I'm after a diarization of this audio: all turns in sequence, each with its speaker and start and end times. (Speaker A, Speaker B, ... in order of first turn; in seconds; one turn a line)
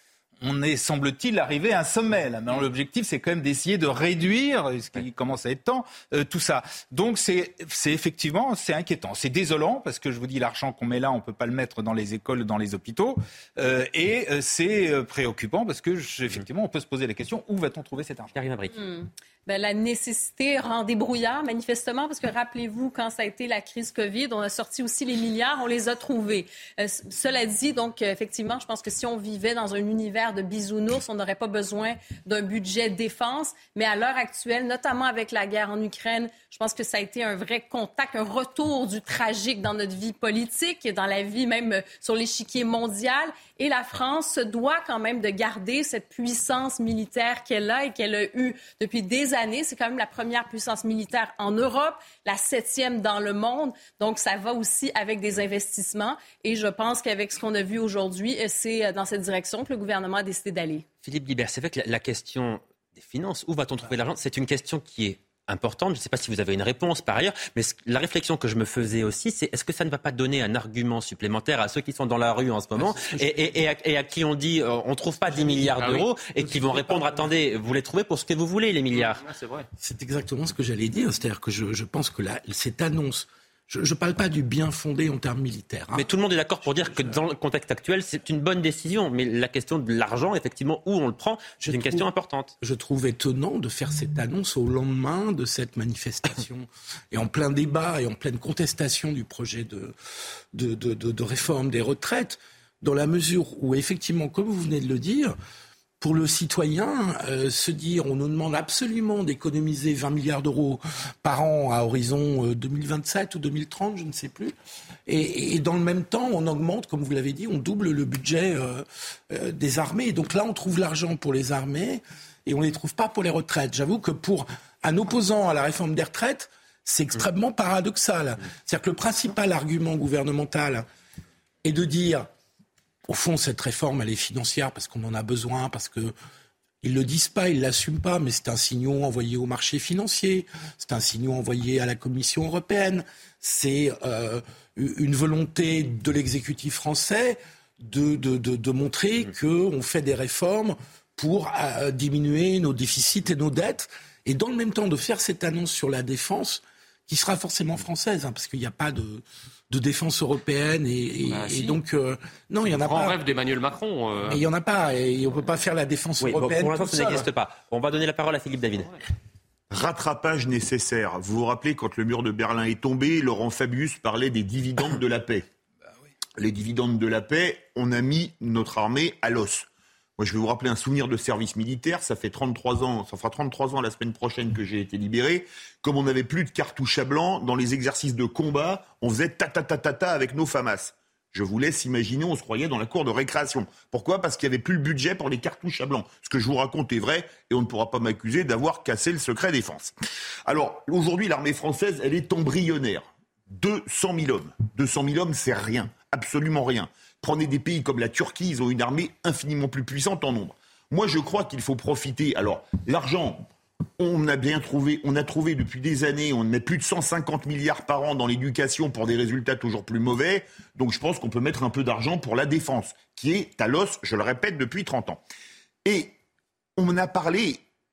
Speaker A: 0.4-18.3
Speaker B: 18.3-18.7
Speaker C: 18.7-60.8
Speaker B: 61.0-79.2
Speaker D: 72.8-73.7
Speaker D: 75.3-75.8
Speaker E: 75.5-76.0
Speaker D: 76.4-77.3
Speaker E: 78.9-79.7
Speaker D: 79.8-86.1
Speaker B: 85.9-92.5
Speaker D: 86.8-87.2
Speaker D: 91.6-99.9
Speaker D: 100.5-105.3
Speaker D: 106.0-114.5
Speaker D: 115.1-130.8
Speaker D: 131.6-132.3
Speaker D: 133.1-136.1
Speaker D: 136.8-163.2
Speaker E: 161.3-161.8
Speaker E: 162.7-164.4
Speaker D: 164.2-167.3
Speaker B: 166.2-168.9
Speaker F: 169.7-175.4
Speaker F: 176.4-179.7
Speaker F: 180.2-199.9
Speaker F: 200.5-213.4
Speaker F: 214.0-225.2
Speaker F: 225.8-226.1
Speaker F: 226.8-227.6